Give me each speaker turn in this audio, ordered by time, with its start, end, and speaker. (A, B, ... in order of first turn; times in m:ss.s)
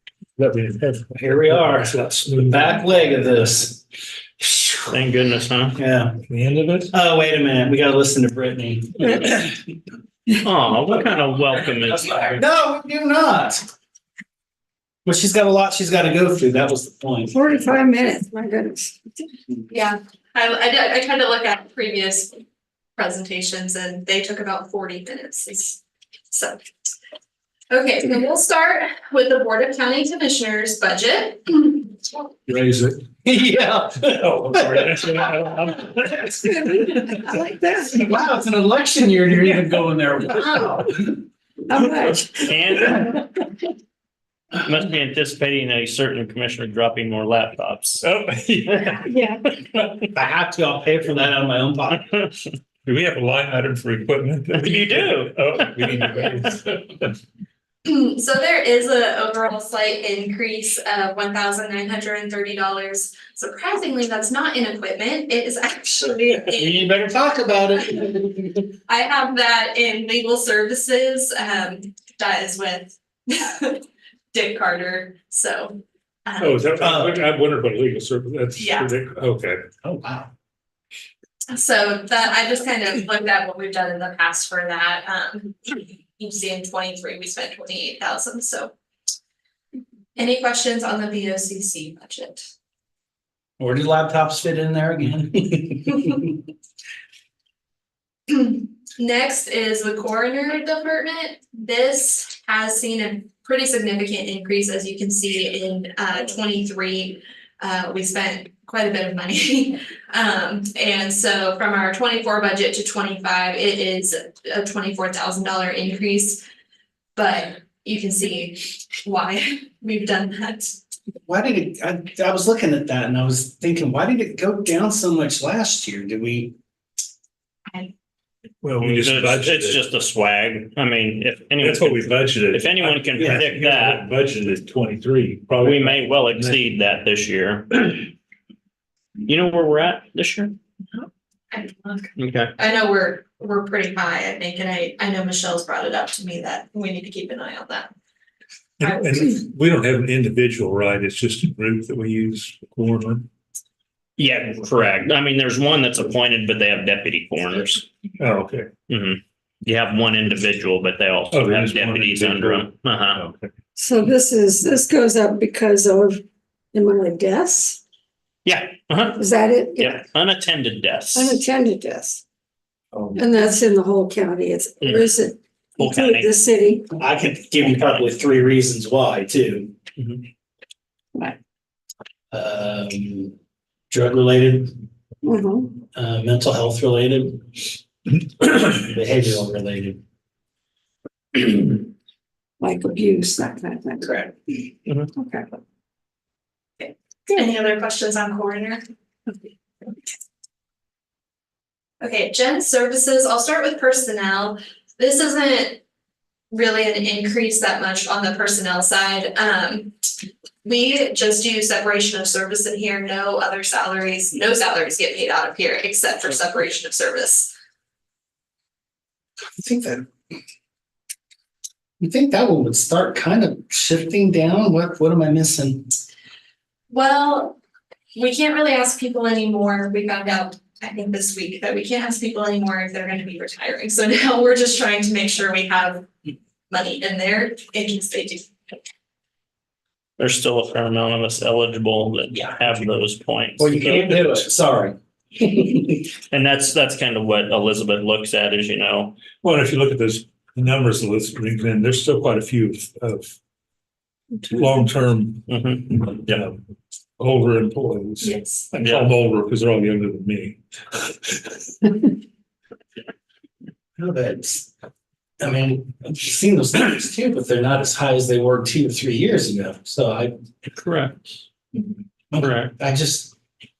0:00.4-0:02.9 A
0:01.1-0:03.8 B
0:04.4-0:04.9 B
0:04.9-0:05.8 C
0:05.8-0:06.2 B
0:06.3-0:06.9 A
0:06.9-0:09.5 B
0:09.0-0:09.4 D
0:10.4-0:12.4 C
0:12.4-0:13.6 B
0:15.0-0:17.4 B
0:17.3-0:19.0 D
0:19.7-0:22.4 E
0:23.0-0:25.8 E
0:26.3-0:26.9 E
0:27.7-0:32.1 E
0:32.5-0:33.1 A
0:33.2-0:35.2 B
0:34.1-0:37.0 A
0:36.4-0:38.1 D
0:37.9-0:41.2 B
0:41.7-0:43.0 D
0:42.0-0:43.2 C
0:44.6-0:48.0 C
0:48.0-0:49.1 A
0:48.7-0:48.9 C
0:50.1-0:52.1 B
0:52.8-0:57.1 A
0:54.5-0:56.1 C
0:57.8-1:06.8 E
1:06.5-1:08.6 B
1:08.9-1:16.7 E
1:16.4-1:19.6 A
1:16.8-1:17.2 B
1:18.6-1:18.9 E
1:19.8-1:20.3 B
1:21.5-1:28.7 E
1:30.2-1:32.4 E
1:33.6-1:36.3 B
1:38.3-1:56.4 E
1:57.2-2:00.7 E
2:01.3-2:06.5 B
2:08.6-2:09.8 A
2:08.8-2:14.0 C
2:11.6-2:16.6 A
2:15.6-2:18.1 C
2:19.2-2:20.5 C
2:20.9-2:27.9 E
2:22.2-2:22.5 C
2:28.8-2:33.3 A
2:28.8-2:29.4 E
2:34.2-2:37.8 C
2:38.2-2:38.7 A
2:38.9-2:43.2 C
2:41.3-2:43.5 A
2:43.8-2:46.2 D
2:46.7-2:47.8 D
2:48.4-2:49.2 C
2:49.2-2:50.0 D
2:49.8-2:51.4 C
2:51.1-2:52.2 D
2:53.1-2:56.9 D
2:54.8-2:55.2 C
2:55.8-2:56.4 C
2:56.9-2:59.7 B
2:57.6-2:58.2 C
3:00.0-3:00.2 C
3:02.3-3:03.3 B
3:03.9-3:04.8 B
3:05.2-3:05.7 D
3:05.8-3:07.6 B
3:08.4-3:10.0 B
3:12.6-3:15.5 D
3:16.8-3:18.8 E
3:22.0-3:25.8 E
3:26.5-3:29.9 E
3:30.6-3:37.5 E
3:39.6-3:40.1 B
3:42.0-3:45.9 B
3:46.9-3:47.6 E
3:48.1-3:56.1 E
3:56.7-3:58.5 E
4:00.2-4:04.5 C
4:02.3-4:02.6 B
4:02.7-4:02.9 A
4:03.6-4:06.1 B
4:06.3-4:09.2 C
4:09.4-4:13.3 A
4:14.4-4:16.6 A
4:15.5-4:15.9 C
4:17.2-4:21.6 A
4:18.2-4:18.7 E
4:18.8-4:19.1 C
4:24.0-4:24.7 B
4:25.4-4:30.4 B
4:30.8-4:31.2 C
4:32.3-4:33.3 B
4:32.4-4:32.7 C